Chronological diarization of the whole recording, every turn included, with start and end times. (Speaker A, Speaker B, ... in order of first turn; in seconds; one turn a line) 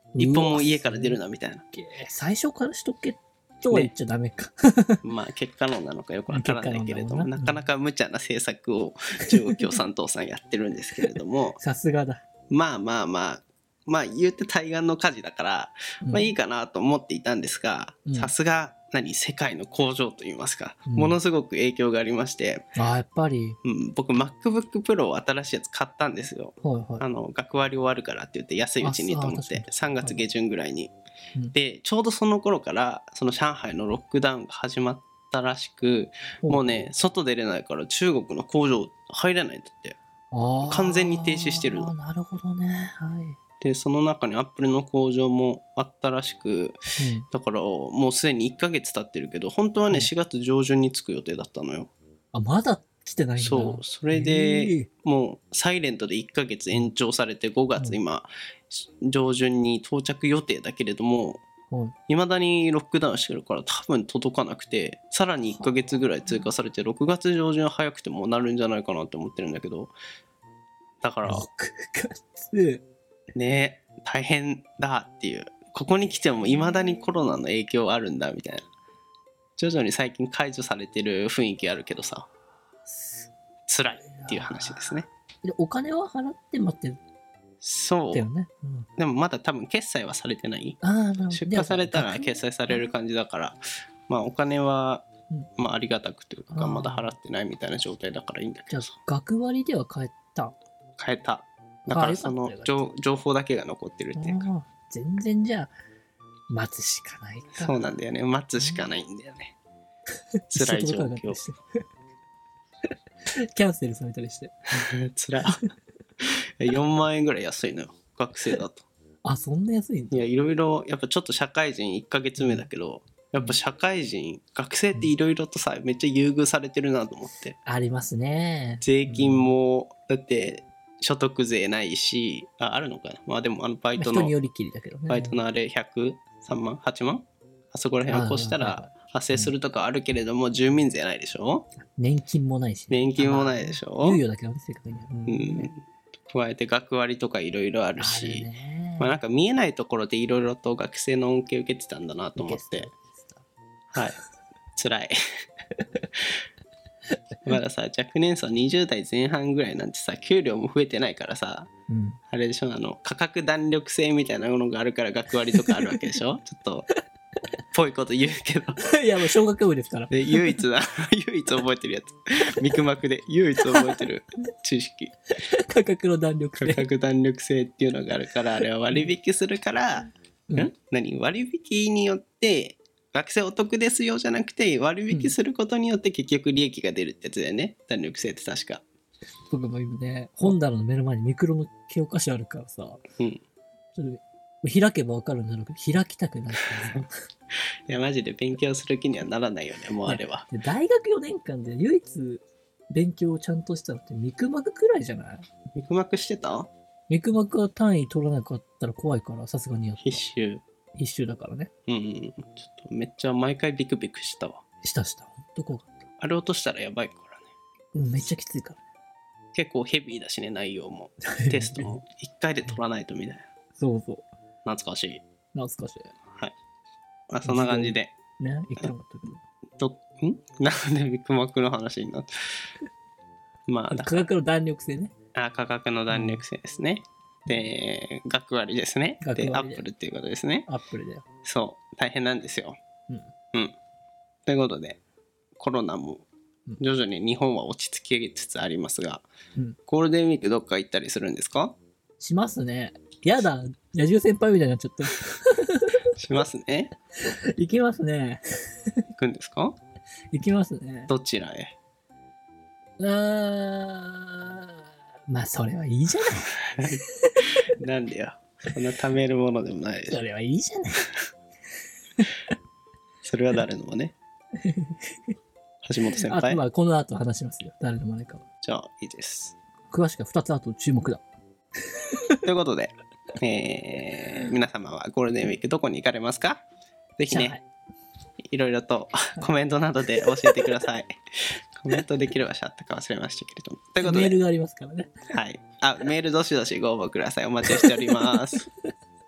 Speaker A: 0.1-1.2
Speaker B: 0.2-1.6
Speaker A: 1.7-5.0
Speaker B: 5.0-11.6
Speaker A: 6.3-7.5
Speaker A: 11.6-12.2
Speaker B: 12.5-22.6
Speaker A: 16.0-16.3
Speaker A: 18.1-18.3
Speaker A: 20.9-21.2
Speaker A: 22.7-23.6
Speaker B: 23.6-30.9
Speaker A: 26.6-27.0
Speaker A: 28.8-30.2
Speaker B: 31.5-40.0
Speaker A: 36.4-36.9
Speaker A: 40.3-43.4
Speaker B: 40.6-41.9
Speaker B: 43.6-46.8
Speaker A: 47.0-47.2
Speaker B: 47.3-51.9
Speaker A: 52.3-54.9
Speaker B: 53.4-61.4
Speaker B: 62.1-69.9
Speaker A: 65.5-66.5
Speaker B: 71.0-71.5
Speaker A: 71.2-72.8
Speaker B: 73.3-78.7
Speaker A: 76.0-77.2
Speaker B: 79.6-82.3
Speaker A: 83.0-83.2
Speaker B: 83.7-85.1
Speaker A: 84.0-87.0
Speaker B: 87.6-88.2
Speaker A: 88.1-88.9
Speaker B: 89.0-90.8
Speaker A: 90.8-92.9
Speaker B: 91.3-95.1
Speaker B: 95.6-98.9
Speaker A: 96.5-97.1
Speaker A: 98.7-100.5
Speaker B: 101.0-104.5
Speaker A: 101.9-102.9
Speaker A: 104.2-105.7
Speaker A: 106.5-107.8
Speaker B: 107.6-109.5
Speaker A: 108.6-108.8
Speaker A: 110.5-111.6
Speaker B: 110.5-111.4
Speaker A: 113.5-114.5
Speaker B: 114.7-115.6
Speaker B: 116.3-118.8
Speaker A: 119.2-120.2
Speaker B: 120.1-127.6
Speaker A: 122.4-122.6
Speaker A: 127.6-129.5
Speaker B: 128.8-134.3
Speaker A: 134.0-135.4
Speaker B: 135.1-141.7
Speaker A: 138.1-139.5
Speaker A: 141.9-145.7
Speaker B: 142.9-144.2
Speaker B: 145.3-148.4
Speaker A: 148.0-149.1
Speaker B: 149.0-152.9
Speaker A: 152.4-153.4
Speaker B: 153.9-154.2
Speaker B: 154.8-155.1
Speaker B: 157.4-161.7
Speaker A: 161.9-162.2
Speaker B: 162.3-166.9
Speaker A: 165.6-166.0
Speaker B: 167.7-168.8
Speaker A: 168.8-170.6
Speaker B: 170.1-175.1
Speaker A: 175.5-176.8
Speaker B: 176.6-188.8
Speaker A: 189.5-193.0
Speaker A: 193.9-197.1
Speaker B: 197.9-200.4
Speaker A: 200.0-205.5
Speaker B: 205.7-206.7
Speaker A: 207.1-210.2
Speaker B: 210.0-210.6
Speaker A: 210.9-211.7
Speaker B: 211.9-214.6
Speaker A: 214.8-216.0
Speaker B: 216.2-217.4
Speaker A: 217.9-218.8
Speaker B: 219.5-223.4
Speaker A: 221.2-221.9
Speaker A: 223.8-224.2
Speaker B: 224.6-225.2
Speaker A: 225.5-226.1
Speaker B: 227.3-228.1
Speaker A: 227.4-229.4
Speaker B: 229.8-232.3
Speaker B: 233.7-234.3
Speaker A: 233.9-235.1
Speaker B: 235.3-240.7
Speaker A: 236.1-236.4
Speaker A: 239.2-239.8
Speaker A: 240.7-241.2
Speaker B: 241.4-242.8
Speaker B: 244.4-245.0
Speaker B: 245.6-246.2
Speaker B: 246.8-249.3
Speaker B: 249.9-251.8
Speaker A: 252.2-256.0
Speaker B: 256.1-256.9
Speaker A: 257.5-258.4
Speaker B: 259.2-259.8
Speaker A: 260.3-261.1
Speaker B: 261.1-261.7
Speaker A: 263.0-264.7
Speaker A: 265.3-267.6
Speaker B: 266.5-267.0
Speaker B: 267.7-270.2
Speaker A: 270.1-271.1
Speaker B: 273.2-274.1
Speaker A: 274.6-275.0
Speaker B: 275.8-276.6
Speaker A: 276.1-278.4
Speaker B: 278.6-279.6
Speaker A: 279.9-281.2
Speaker B: 282.4-286.6
Speaker B: 287.2-287.6
Speaker A: 287.3-287.6
Speaker B: 288.5-291.1
Speaker A: 290.1-290.7
Speaker B: 291.8-294.4
Speaker A: 294.0-295.1
Speaker B: 295.3-298.7
Speaker A: 297.6-298.4